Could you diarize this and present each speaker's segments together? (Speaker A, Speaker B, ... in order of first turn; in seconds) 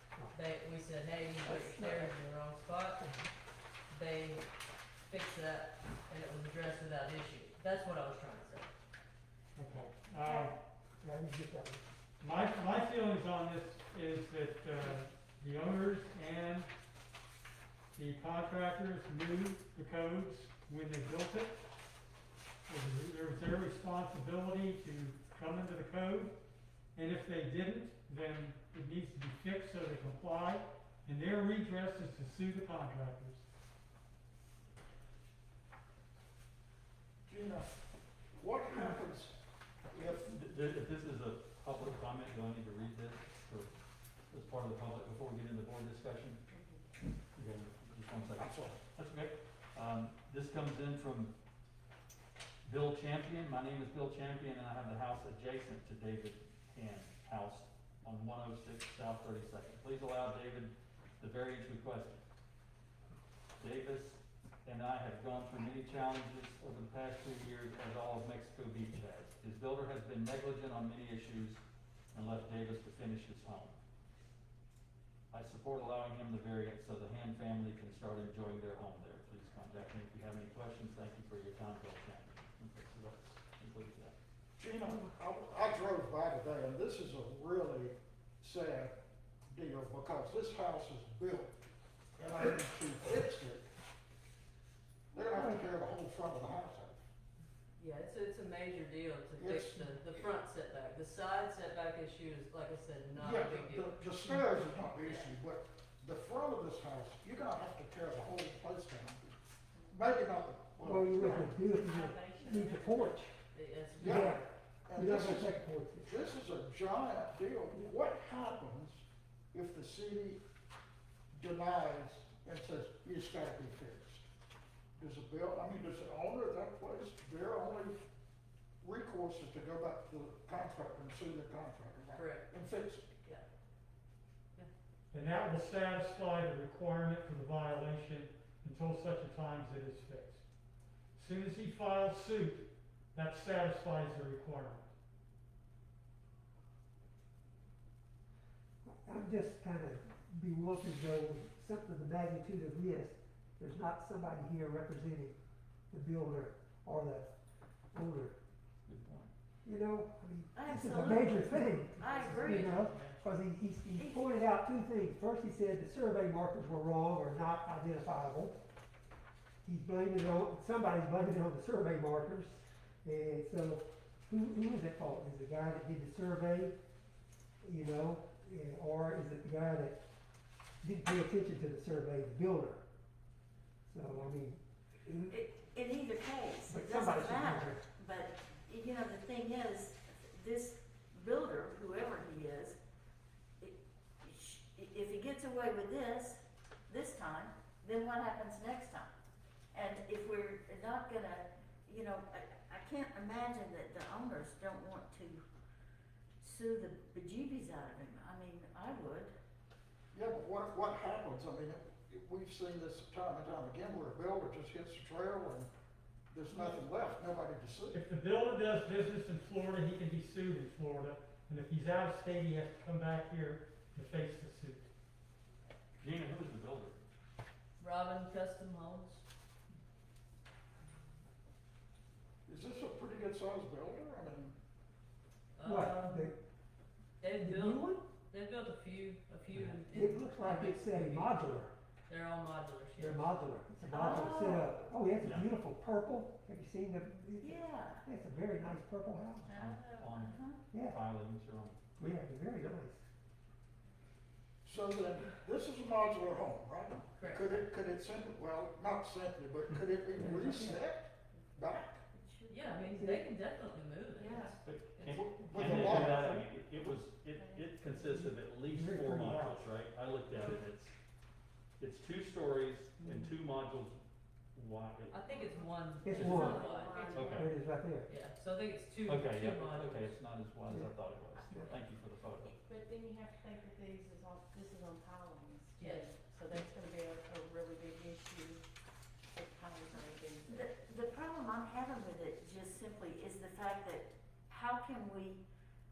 Speaker A: 0.3-3.0, 3.9-4.5, 5.1-8.7, 97.8-104.0, 105.0-105.3, 113.5-114.4, 132.1-132.5, 227.8-229.2, 235.6-236.3, 237.2-241.5, 242.1-243.4, 257.2-257.5, 262.5-265.2, 275.1-277.4, 278.1-280.1, 285.8-286.1
Speaker B: 1.4-2.1, 11.0-11.8, 95.3-95.6, 110.8-113.3, 114.0-116.1, 148.8-155.4, 155.9-157.3, 157.9-158.4, 159.6-168.6, 169.6-176.8, 177.6-180.0, 180.8-182.8, 183.9-185.4, 186.7-187.8, 235.6-236.4, 237.3-238.0, 239.9-241.7, 243.0-249.5, 250.7-251.0, 252.0-253.1, 260.2-260.7, 262.8-263.3, 268.1-269.4, 276.0-276.7, 277.3-278.1, 280.7-281.8
Speaker C: 9.6-10.6, 12.2-16.7, 17.9-21.6, 22.7-26.4, 26.9-33.5, 135.1-140.4, 141.2-144.9, 162.0-163.2, 217.9-224.9, 265.6-266.3, 269.2-269.6
Speaker D: 37.3-37.7, 38.4-39.4, 48.3-48.8, 84.6-89.0, 89.5-91.5, 92.2-93.7, 95.1-97.0, 99.4-100.2, 103.2-109.3, 109.9-111.4, 114.0-120.4, 121.3-124.2, 125.0-128.0, 128.8-133.1, 210.1-215.7, 216.3-218.0, 232.5-234.6, 254.6-262.0, 265.1-266.4
Speaker E: 40.0-43.8, 44.3-46.4, 47.3-51.3, 52.6-62.2, 63.6-71.6, 72.1-73.8, 75.3-84.1, 158.8-159.3, 226.0-227.0, 239.5-239.8, 245.2-245.5, 249.5-251.8, 264.6-270.9, 271.8-274.0, 274.5-275.2, 276.1-277.5, 279.1-282.6
Speaker F: 111.9-112.3, 276.5-277.4, 282.7-288.6, 289.3-290.6
Speaker G: 160.5-162.9, 164.0-164.3, 185.3-192.8, 193.6-199.1, 199.7-205.4, 206.4-209.3, 243.9-244.7, 247.4-248.0, 249.4-250.6, 262.1-262.8, 290.4-295.4